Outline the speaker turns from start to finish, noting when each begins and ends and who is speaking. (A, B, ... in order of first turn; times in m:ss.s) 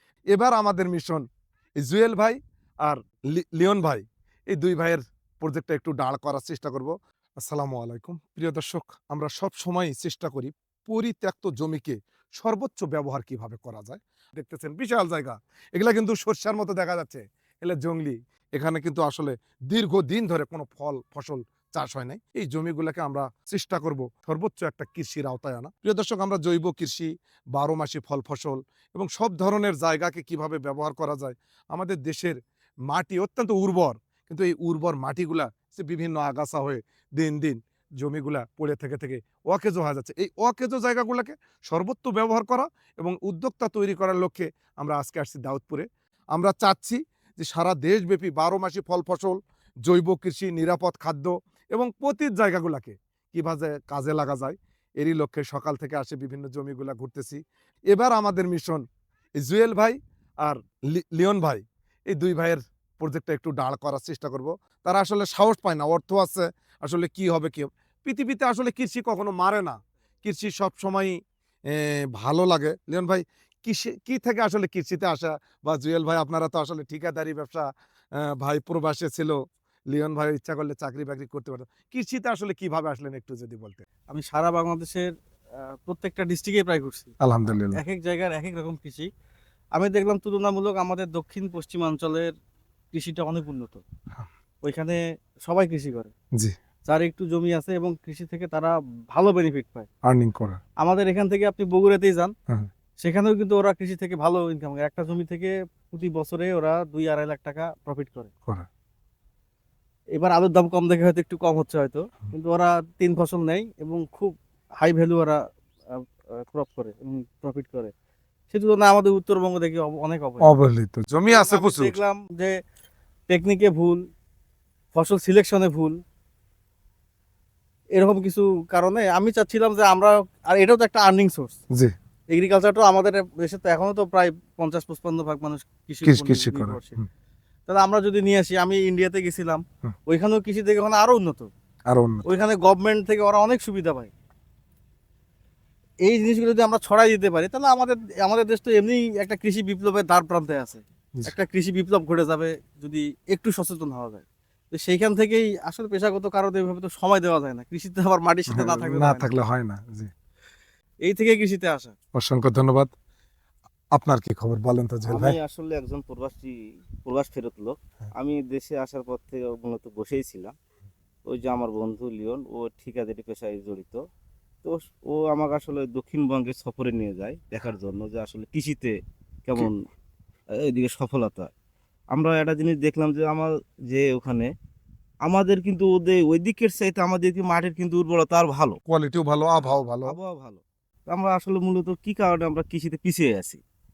0:00.3-0:01.2 A
0:01.8-0:06.9 A
0:07.5-0:32.4 A
0:32.9-0:57.4 A
0:57.9-0:58.8 A
0:59.4-1:11.2 A
1:11.7-1:17.7 A
1:18.2-1:19.4 A
1:19.9-1:23.9 A
1:24.1-1:29.1 B
1:27.2-1:27.8 A
1:29.8-1:32.3 B
1:32.9-1:33.8 B
1:34.6-1:36.1 B
1:36.9-1:39.9 B
1:40.0-1:40.6 A
1:40.8-1:42.3 B
1:43.0-1:48.3 B
1:50.2-1:57.9 B
1:58.5-2:00.5 B
2:00.4-2:02.0 A
2:01.3-2:02.5 B
2:03.3-2:04.0 B
2:05.0-2:06.0 B
2:08.0-2:11.6 B
2:12.3-2:17.0 B
2:16.0-2:17.1 A
2:17.7-2:21.5 B
2:21.9-2:22.3 A
2:22.2-2:24.1 B
2:26.0-2:39.3 B
2:38.5-2:40.1 A
2:41.0-2:41.9 B
2:42.2-2:42.9 A
2:43.9-2:45.4 A
2:45.0-2:50.5 C
2:51.3-2:54.0 C
2:54.6-2:58.9 C
2:59.4-2:59.8 C
3:00.6-3:01.5 C
3:02.1-3:04.5 C
3:05.3-3:08.8 C
3:08.9-3:10.2 A
3:10.0-3:13.6 C